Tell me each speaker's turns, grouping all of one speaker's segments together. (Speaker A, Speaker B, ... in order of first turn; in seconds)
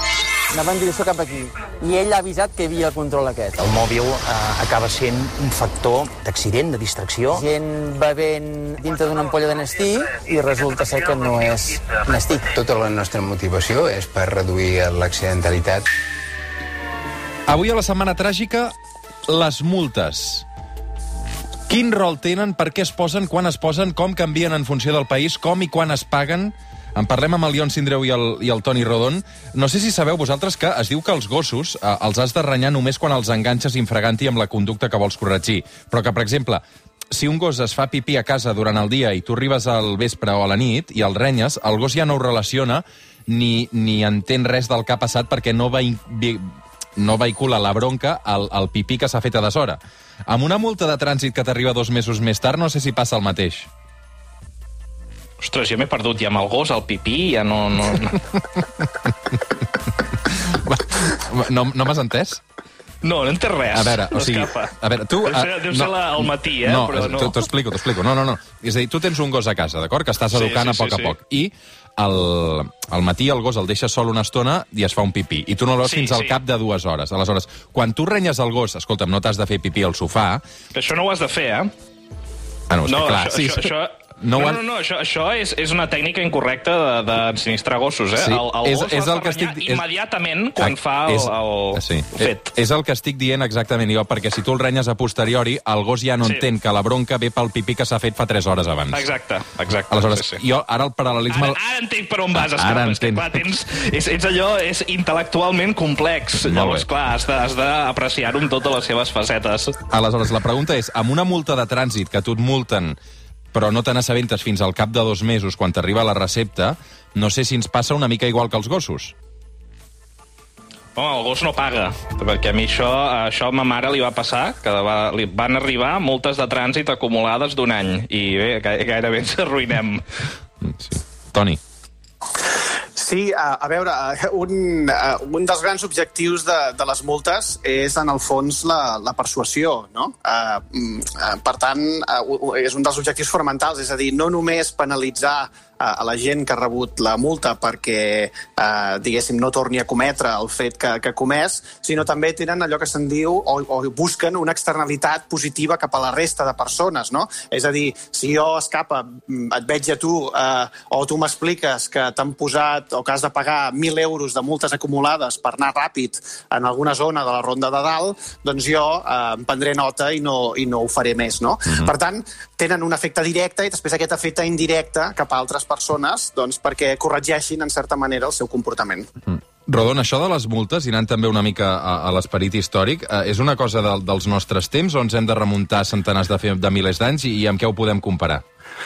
Speaker A: 0.5-3.7, 7.3-12.5
Speaker B: 3.8-7.3
Speaker C: 12.5-15.8
Speaker D: 17.5-18.7, 19.3-20.4, 21.7-53.7, 60.3-62.4, 63.7-80.4, 82.7-84.6, 88.2-89.8, 90.6-99.0, 99.9-101.6, 102.3-103.4, 106.3-106.9, 109.9-113.0, 113.5-119.1, 130.6-131.6, 179.3-188.4
Speaker E: 55.4-58.2, 63.0-67.4, 70.3-71.1, 75.8-76.4, 80.7-81.7, 82.8-92.5, 98.9-100.4, 101.3-109.8, 121.0-130.0
Speaker F: 132.9-179.1